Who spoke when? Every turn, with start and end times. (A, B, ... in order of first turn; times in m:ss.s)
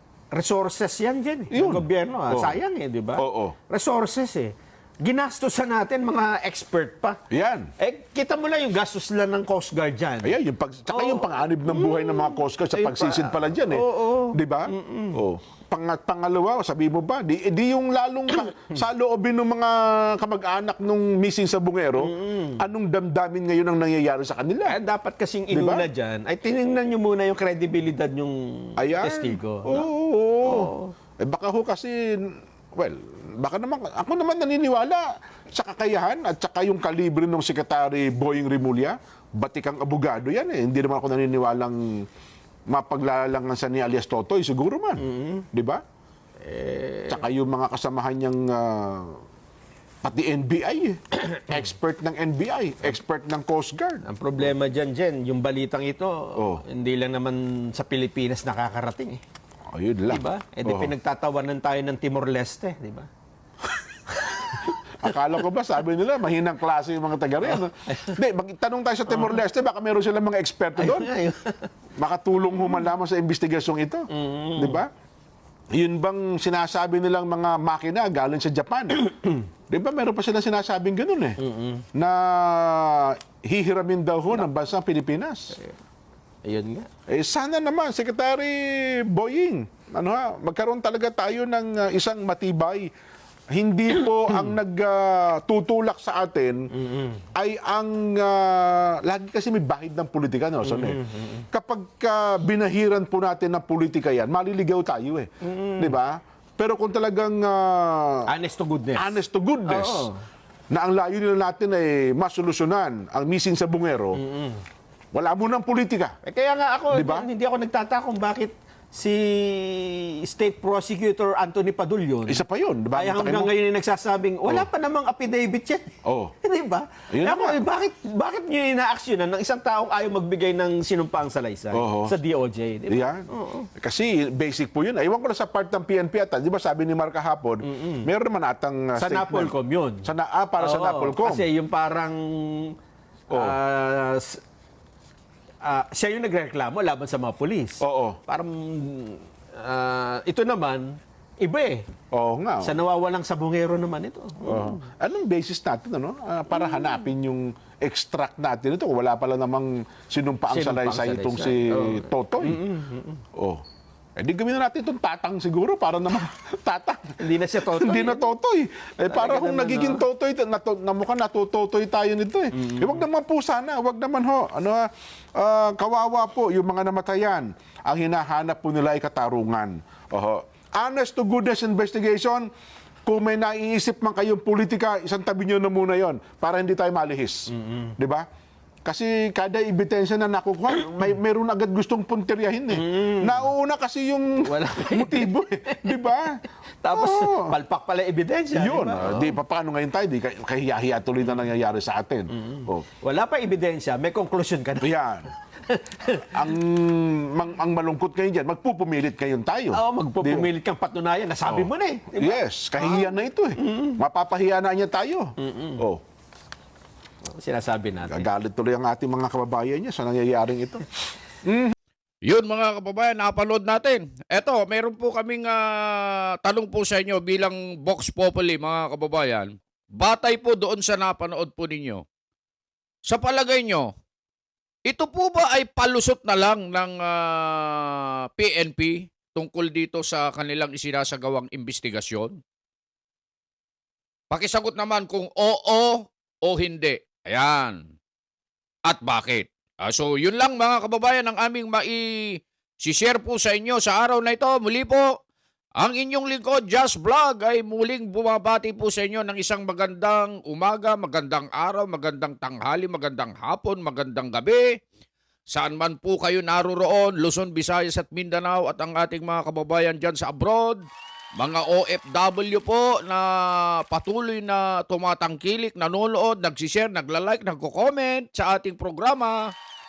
0:00.3-0:07.2 A
0:01.5-0:02.6 B
0:03.2-0:03.5 B
0:07.3-0:07.7 B
0:07.8-0:15.2 A
0:10.2-0:24.8 B
0:22.0-0:22.6 A
0:24.7-0:29.9 A
0:25.5-0:25.9 B
0:28.8-0:42.0 B
0:30.4-0:30.9 A
0:42.7-0:45.8 B
0:45.0-0:45.5 A
0:46.4-0:47.3 A
0:47.1-0:49.2 B
0:50.0-0:54.0 B
0:54.0-0:59.2 A
0:56.3-0:56.6 B
0:59.7-1:00.9 B
1:00.1-1:03.1 A
1:04.1-1:04.7 A
1:05.0-1:11.1 B
1:07.4-1:08.2 A
1:09.1-1:09.4 A
1:10.8-1:11.7 A
1:12.0-1:14.9 B
1:14.1-1:14.8 A
1:15.7-1:21.4 B
1:21.4-1:21.8 A
1:21.9-1:25.6 B
1:26.4-1:26.9 A
1:27.1-1:32.9 B
1:33.5-1:36.7 B
1:36.7-1:37.2 A
1:37.3-1:48.3 B
1:40.6-1:41.4 A
1:45.4-1:46.0 A
1:48.2-1:50.2 A
1:48.9-1:50.1 B
1:50.7-1:54.2 B
1:54.2-1:54.6 A
1:55.1-1:56.2 B
1:56.2-2:02.4 A
1:56.9-1:57.2 B
2:02.3-2:03.5 B
2:02.9-2:05.9 A
2:06.0-2:06.3 B
2:06.4-2:13.7 A
2:07.1-2:07.6 B
2:11.7-2:12.1 B
2:12.9-2:21.5 B
2:17.6-2:18.1 A
2:19.0-2:22.8 A
2:23.3-2:23.6 B
2:23.3-2:24.4 A
2:25.6-2:31.8 A
2:27.8-2:28.2 B
2:32.1-2:32.7 B
2:32.6-2:34.8 A
2:34.4-2:42.6 B
2:36.6-2:36.8 A
2:40.5-2:43.2 A
2:43.4-2:43.6 B
2:44.2-3:02.5 B
2:47.2-2:48.3 A
2:49.0-2:50.0 A
2:52.5-2:53.0 A
3:03.0-3:08.2 B
3:07.5-3:07.9 A
3:08.8-3:16.4 B
3:12.7-3:13.4 A
3:14.4-3:16.0 A
3:16.8-3:19.4 A
3:16.9-3:17.6 B
3:18.5-3:22.8 B
3:22.4-3:24.9 A
3:24.8-3:25.3 B
3:25.6-3:26.5 A
3:26.3-3:30.5 B
3:29.7-3:34.0 A
3:31.4-3:36.0 B
3:35.4-3:35.8 A
3:37.3-3:38.3 A
3:38.0-3:40.9 B
3:41.4-3:41.7 B
3:42.2-3:52.0 C
3:53.1-3:53.9 C
3:54.8-4:02.4 C
4:04.3-4:07.8 C
4:08.8-4:12.0 C
4:12.8-4:15.1 C
4:15.8-4:24.6 C
4:25.5-4:30.8 C
4:31.4-4:33.3 C
4:33.9-4:39.4 C